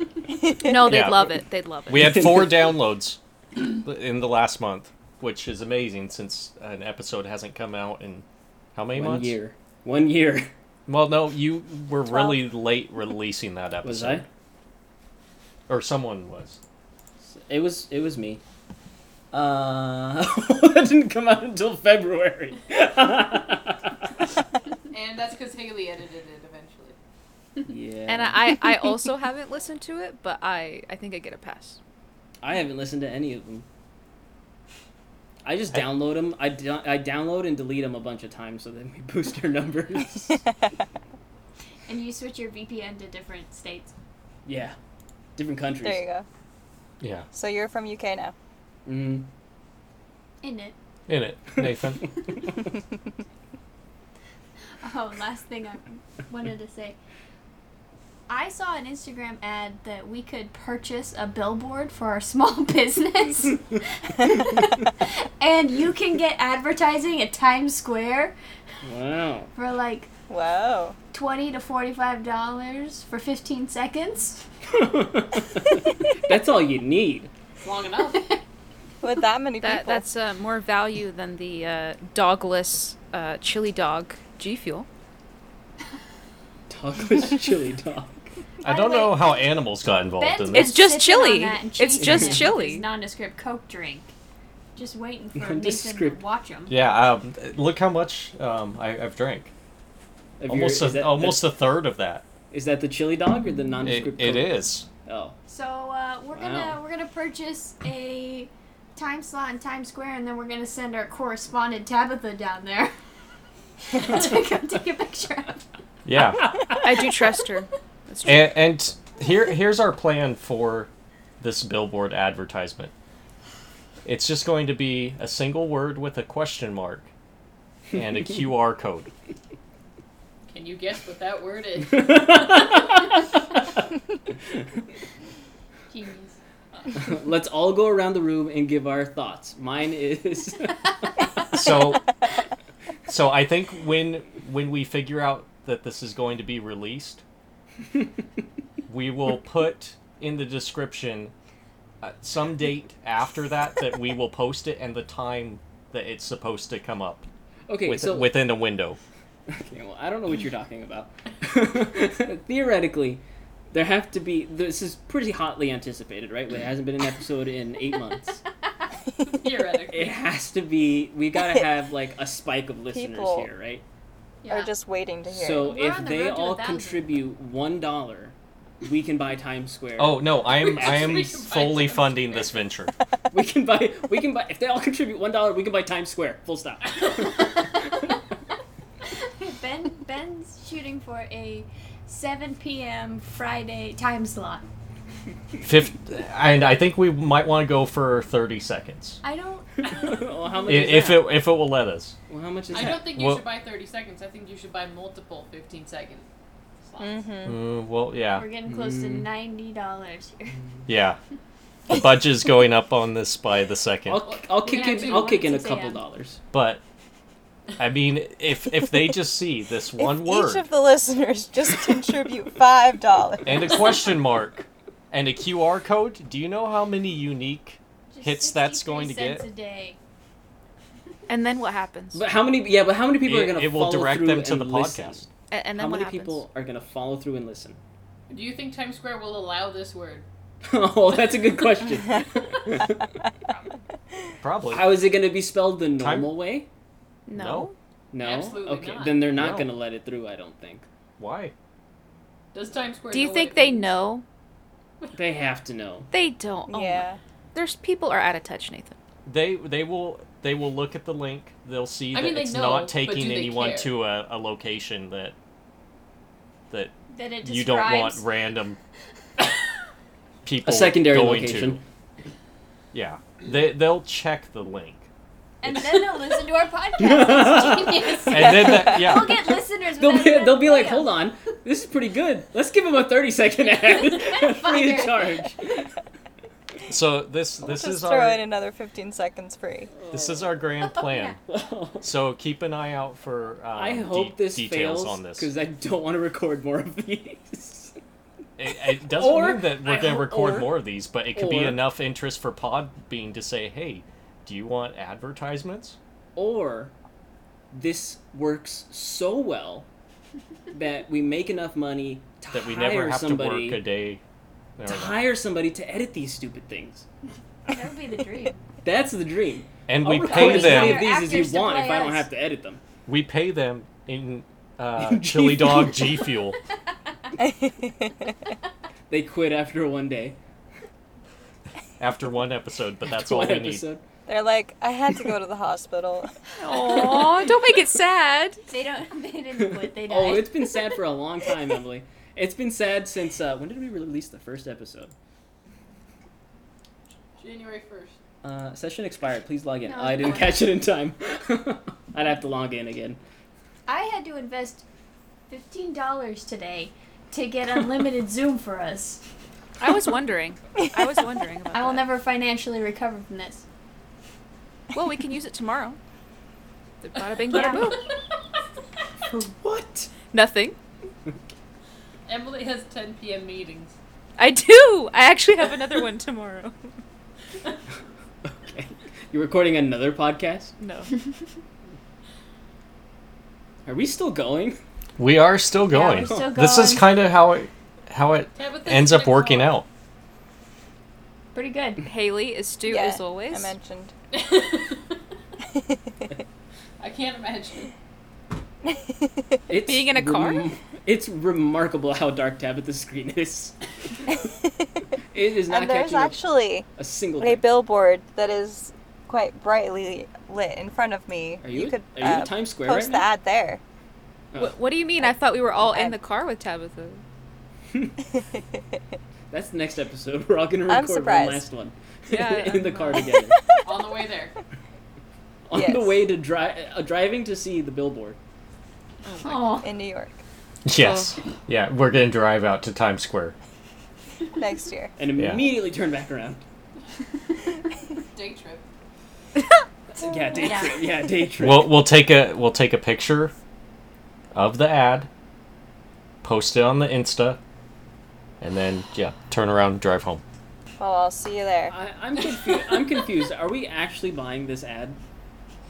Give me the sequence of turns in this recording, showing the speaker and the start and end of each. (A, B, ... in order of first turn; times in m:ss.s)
0:00.6-0:02.5 A
0:00.8-0:01.3 B
0:01.9-0:09.4 B
0:08.9-0:10.5 C
0:10.9-0:14.3 B
0:13.8-0:14.3 C
0:15.7-0:16.6 B
0:17.3-0:18.4 C
0:19.3-0:24.0 C
0:24.9-0:27.0 D
0:27.6-0:28.5 C
0:28.1-0:31.8 A
0:32.4-0:33.7 C
0:35.4-0:40.4 C
0:41.9-0:43.9 E
0:44.5-0:44.8 C
0:45.4-0:46.0 C
0:45.8-0:46.3 F
0:47.0-0:47.3 B
0:47.3-0:48.3 F
0:48.9-0:49.3 C
0:50.4-0:50.8 E
0:51.1-0:52.1 B
0:54.8-0:57.0 E
0:58.3-1:08.4 E
1:08.8-1:09.5 C
1:09.6-1:10.1 E
1:10.3-1:11.0 F
1:11.1-1:14.4 E
1:14.7-1:17.3 C
1:17.6-1:18.4 D
1:19.0-1:20.1 F
1:19.6-1:24.9 A
1:26.7-1:28.3 C
1:28.6-1:29.5 E
1:28.6-1:30.8 B
1:30.2-1:34.1 E
1:30.5-1:32.8 A
1:32.0-1:32.5 C
1:34.8-1:36.8 E
1:35.4-1:36.2 C
1:36.7-1:39.5 B
1:40.4-1:41.5 C
1:40.5-1:42.2 B
1:42.5-1:45.4 C
1:43.8-1:44.9 B
1:45.5-1:52.9 E
1:46.3-1:46.8 C
1:53.9-1:55.6 E
1:56.1-1:56.4 B
1:56.4-1:56.8 C
1:56.8-1:58.5 A
1:58.2-2:02.9 B
2:04.0-2:07.1 B
2:07.9-2:09.1 B
2:10.5-2:12.8 D
2:15.9-2:16.4 E
2:17.0-2:20.9 C
2:21.5-2:22.1 B
2:23.1-2:27.2 B
2:28.9-2:31.3 B
2:32.0-2:37.3 B
2:37.7-2:38.5 C
2:37.9-2:39.0 B
2:39.5-2:48.4 C
2:49.2-2:50.2 D
2:49.9-2:53.8 C
2:52.9-2:53.5 F
2:54.4-2:54.7 E
2:54.5-2:55.8 F
2:55.3-3:01.2 C
2:55.6-2:57.1 E
3:00.0-3:02.9 B
3:00.6-3:02.6 D
3:03.3-3:07.6 C
3:07.0-3:07.3 D
3:09.4-3:14.6 E
3:15.6-3:19.2 B
3:19.2-3:21.1 E
3:19.8-3:20.1 D
3:20.0-3:21.3 C
3:20.7-3:22.2 B
3:22.3-3:23.1 C
3:22.7-3:26.3 D
3:22.8-3:23.5 B
3:26.8-3:27.3 D
3:27.0-3:27.6 F
3:27.4-3:28.5 B
3:28.4-3:30.6 E
3:28.7-3:29.3 C
3:30.9-3:31.2 B
3:31.9-3:34.2 B
3:34.1-3:36.4 C
3:34.3-3:35.4 D
3:34.6-3:36.0 E
3:36.5-3:36.8 B
3:37.8-3:40.7 B
3:40.0-3:43.8 F
3:43.5-3:49.5 B
3:48.1-3:50.0 E
3:51.3-3:52.2 A
3:52.1-3:55.3 C
3:53.2-3:55.3 B
3:55.5-3:56.4 A
3:55.8-3:57.8 C
3:58.3-4:00.3 D
4:00.6-4:03.1 C
4:04.4-4:04.9 B
4:04.7-4:06.7 C
4:06.0-4:06.4 B
4:07.3-4:07.8 A
4:07.3-4:07.7 B
4:08.1-4:10.9 C
4:08.2-4:09.3 D
4:09.4-4:09.7 B
4:11.2-4:11.5 B
4:12.5-4:14.0 D
4:13.1-4:14.2 A
4:15.2-4:16.1 C
4:16.1-4:19.0 A
4:16.7-4:17.2 F
4:19.3-4:25.4 B
4:22.1-4:24.0 D
4:26.7-4:28.8 B
4:27.1-4:28.3 E
4:30.4-4:31.8 B
4:30.6-4:31.8 C
4:32.9-4:35.1 B
4:35.6-4:41.3 E
4:37.0-4:38.4 C
4:38.3-4:39.4 B
4:40.0-4:45.9 C
4:44.1-4:45.5 E
4:46.9-4:48.4 B
4:47.6-4:49.9 F
4:50.0-4:50.5 C
4:50.1-4:51.4 B
4:51.5-4:52.1 C
4:52.0-4:55.5 B
4:53.7-4:58.0 C
4:58.6-5:06.0 B
4:59.0-5:01.8 C
5:06.4-5:06.9 C
5:07.7-5:09.9 C
5:10.7-5:13.8 C
5:12.5-5:14.2 B
5:14.8-5:15.2 B
5:14.9-5:17.1 C
5:17.7-5:18.6 E
5:18.8-5:22.8 C
5:19.9-5:21.1 B
5:20.2-5:22.3 E
5:23.1-5:26.6 B
5:25.0-5:26.2 C
5:27.4-5:28.3 F
5:29.1-5:30.4 C
5:32.0-5:33.8 B
5:33.0-5:34.0 C
5:34.3-5:36.3 F
5:36.6-5:38.6 A
5:38.7-5:40.6 E
5:39.8-5:45.1 C
5:47.4-5:48.2 D
5:48.4-5:53.2 C
5:49.8-5:50.6 E
5:53.9-5:54.8 E
5:55.5-5:59.2 E
5:59.8-6:02.1 A
6:01.7-6:03.6 E
6:04.9-6:06.0 A
6:07.0-6:08.1 A
6:07.3-6:08.2 D
6:07.5-6:07.9 E
6:09.3-6:10.1 C
6:10.3-6:10.8 A
6:12.3-6:14.0 D
6:14.4-6:16.8 A
6:18.5-6:20.8 C
6:20.8-6:21.3 A
6:23.9-6:24.8 C
6:25.2-6:29.9 B
6:25.9-6:27.1 E
6:26.2-6:26.5 C
6:28.6-6:29.8 D
6:31.5-6:32.0 E
6:32.0-6:33.7 A
6:32.8-6:34.1 F
6:34.3-6:35.2 D
6:37.0-6:37.9 D
6:39.7-6:43.8 C
6:39.8-6:40.7 A
6:45.3-6:47.7 C
6:45.7-6:46.9 F
6:47.4-6:53.8 F
6:51.6-6:53.3 C
6:54.5-6:54.8 C
6:54.6-6:57.2 A
6:55.2-6:56.2 F
6:58.6-6:58.8 F
6:59.5-7:03.6 C
7:00.9-7:01.6 F
7:02.3-7:03.3 A
7:03.8-7:04.5 D
7:05.7-7:08.4 C
7:05.7-7:06.2 F
7:09.2-7:09.7 A
7:09.4-7:09.9 E
7:09.7-7:10.4 F
7:10.8-7:13.6 B
7:10.9-7:11.3 A
7:14.6-7:15.2 F
7:15.2-7:16.6 C
7:15.4-7:15.6 B
7:18.3-7:18.8 D
7:20.2-7:22.0 C
7:20.6-7:21.0 E
7:21.6-7:23.5 B
7:24.5-7:25.3 B
7:26.4-7:27.6 B
7:28.6-7:30.4 B
7:31.0-7:32.0 F
7:31.9-7:35.2 C